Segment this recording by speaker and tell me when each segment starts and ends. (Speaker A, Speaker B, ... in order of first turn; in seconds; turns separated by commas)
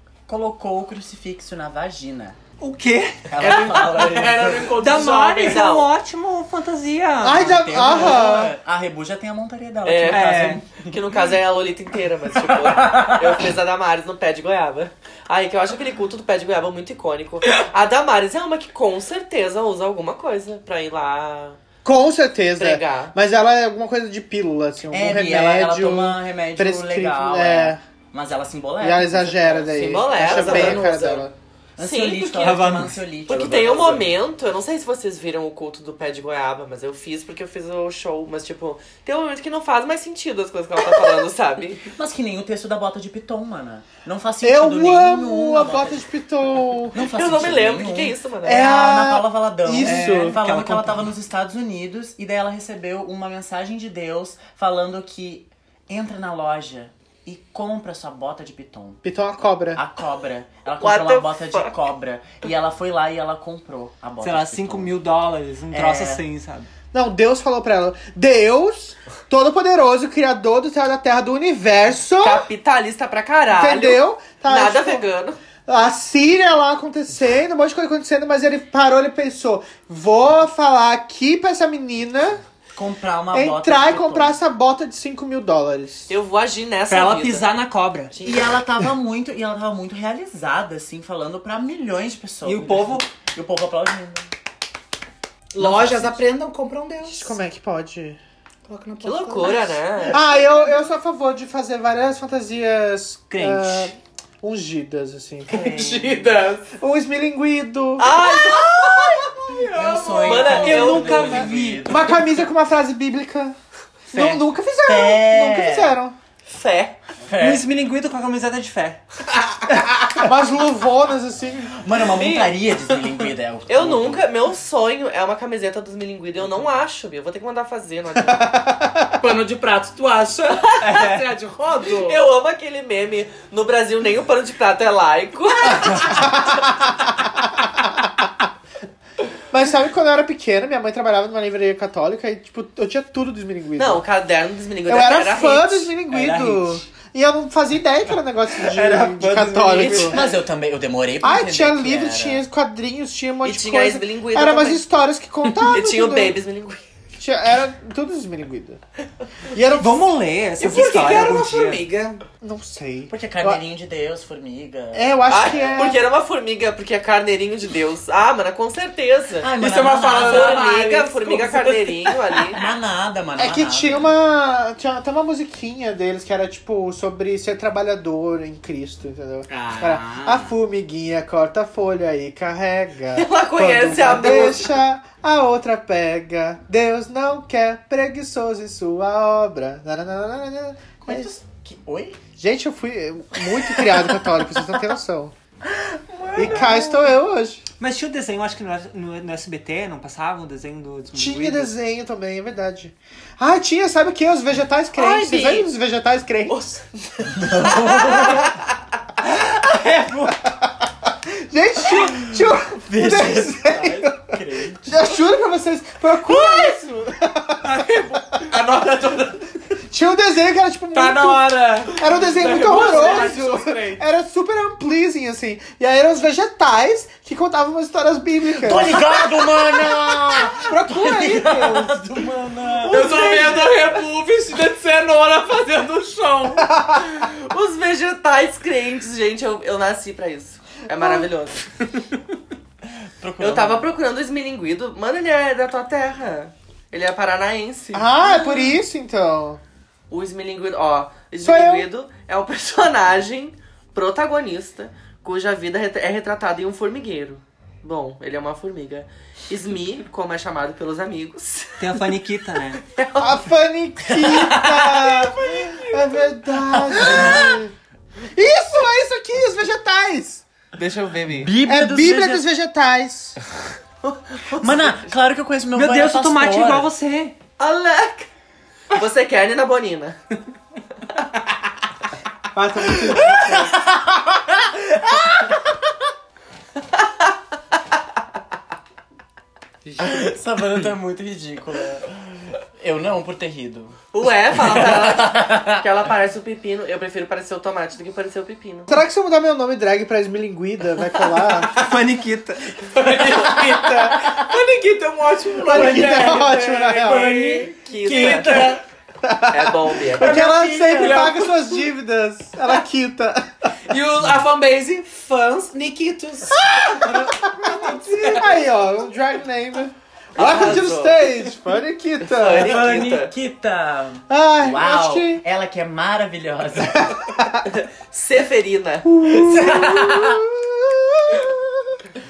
Speaker A: 0.3-2.4, Speaker B: 2.6-3.7, Speaker A: 3.3-5.0, Speaker C: 3.4-5.7, Speaker B: 4.7-7.8, Speaker D: 5.4-5.9, Speaker E: 7.2-8.5, Speaker A: 7.3-11.0, Speaker D: 9.8-21.6, Speaker B: 10.1-10.6, Speaker A: 12.3-13.5, Speaker E: 21.8-27.8, Speaker D: 22.6-23.1, Speaker A: 24.9-30.9, Speaker E: 28.8-31.3, Speaker D: 29.7-31.3, Speaker A: 31.8-34.1, Speaker D: 31.8-41.9, Speaker B: 32.4-33.0, Speaker A: 41.9-46.0, Speaker E: 44.4-47.0, Speaker A: 46.9-59.0, Speaker D: 47.0-48.8, Speaker E: 48.4-50.4, Speaker B: 49.8-51.0, Speaker E: 59.0-59.8, Speaker A: 59.7-64.9, Speaker D: 60.8-61.7, Speaker B: 64.2-66.7, Speaker A: 65.7-66.2, Speaker E: 66.9-72.5, Speaker D: 72.2-75.4, Speaker E: 73.5-75.0, Speaker E: 75.7-82.4, Speaker A: 82.7-84.4, Speaker E: 83.3-86.1, Speaker D: 86.1-87.5, Speaker B: 86.9-88.2, Speaker A: 88.2-94.3, Speaker B: 92.4-93.1, Speaker C: 95.5-97.4, Speaker A: 95.6-96.2, Speaker E: 97.0-98.2, Speaker C: 98.7-100.1, Speaker D: 99.0-100.2, Speaker E: 100.0-105.7, Speaker B: 103.3-103.9, Speaker A: 105.5-106.2, Speaker C: 105.5-106.7, Speaker E: 106.8-108.8, Speaker D: 108.0-109.4, Speaker C: 109.2-111.8, Speaker A: 109.7-112.3, Speaker D: 110.0-111.6, Speaker E: 110.7-113.5, Speaker B: 111.0-111.7, Speaker E: 114.1-116.1, Speaker A: 114.1-116.0, Speaker D: 116.5-117.0, Speaker A: 117.2-117.7, Speaker B: 117.4-119.0, Speaker E: 119.9-121.8, Speaker A: 121.7-124.3, Speaker D: 122.1-123.0, Speaker D: 123.7-128.5, Speaker E: 128.2-129.2, Speaker C: 129.2-132.2, Speaker D: 130.6-131.0, Speaker B: 130.9-131.3, Speaker D: 131.9-137.0, Speaker B: 135.9-136.2, Speaker E: 136.0-136.7, Speaker E: 139.5-144.0, Speaker D: 143.8-145.9, Speaker E: 144.9-150.2, Speaker B: 146.1-146.8, Speaker B: 148.5-150.2, Speaker D: 149.8-150.2, Speaker A: 149.8-152.4, Speaker E: 151.2-156.4, Speaker D: 153.4-154.8, Speaker D: 155.7-156.8, Speaker E: 157.2-158.8, Speaker E: 159.5-160.1, Speaker B: 159.7-161.9, Speaker C: 160.6-162.2, Speaker E: 162.4-163.6, Speaker A: 163.1-165.9, Speaker E: 164.9-166.0, Speaker D: 165.3-169.5, Speaker A: 169.4-170.8, Speaker C: 169.6-172.6, Speaker D: 170.2-172.6, Speaker A: 172.5-174.1, Speaker E: 173.4-191.3, Speaker A: 179.5-180.6, Speaker D: 183.1-184.7, Speaker A: 191.0-192.2, Speaker E: 192.4-195.3, Speaker A: 193.6-194.1, Speaker A: 195.6-197.1, Speaker E: 196.3-197.6, Speaker B: 197.8-201.7, Speaker E: 201.1-206.8, Speaker D: 204.9-205.7, Speaker D: 206.5-208.6, Speaker A: 207.3-208.6, Speaker A: 209.7-210.4, Speaker E: 210.3-210.7, Speaker E: 211.2-217.7, Speaker A: 211.9-215.1, Speaker D: 216.3-216.7, Speaker C: 217.7-219.7, Speaker E: 219.8-229.0, Speaker C: 220.9-224.0, Speaker A: 228.6-233.3, Speaker E: 230.3-232.1, Speaker C: 232.8-236.7, Speaker E: 232.9-233.7, Speaker E: 236.7-237.2, Speaker D: 237.0-241.6, Speaker E: 241.0-241.2, Speaker A: 242.8-243.9, Speaker D: 243.4-248.8, Speaker E: 247.9-249.6, Speaker D: 250.1-262.0, Speaker E: 251.4-251.9, Speaker B: 261.8-262.8, Speaker D: 262.9-263.4, Speaker E: 263.2-267.7, Speaker A: 266.7-267.6, Speaker E: 268.3-270.4, Speaker D: 270.8-271.5, Speaker A: 271.4-272.4, Speaker E: 271.6-273.4, Speaker D: 274.0-275.1, Speaker A: 274.6-276.9, Speaker B: 275.7-277.4, Speaker D: 277.6-278.3, Speaker D: 278.9-280.2, Speaker E: 282.5-283.7, Speaker A: 283.1-285.5, Speaker A: 290.0-294.0, Speaker D: 294.1-298.9, Speaker A: 294.5-295.8, Speaker E: 298.9-301.9, Speaker B: 301.7-302.8, Speaker C: 302.8-308.8, Speaker A: 303.5-304.4, Speaker E: 305.6-307.5, Speaker B: 307.5-308.6, Speaker D: 307.6-308.8, Speaker A: 308.2-308.8, Speaker E: 309.2-313.5, Speaker D: 309.5-310.4, Speaker C: 310.2-311.9, Speaker A: 310.3-311.1, Speaker C: 313.9-318.5, Speaker E: 316.5-322.8, Speaker B: 317.4-318.4, Speaker D: 320.4-321.5, Speaker D: 322.2-323.3, Speaker A: 322.6-327.2, Speaker E: 324.3-325.4, Speaker E: 327.0-327.7, Speaker D: 327.6-329.2, Speaker E: 329.0-331.9, Speaker A: 329.3-330.4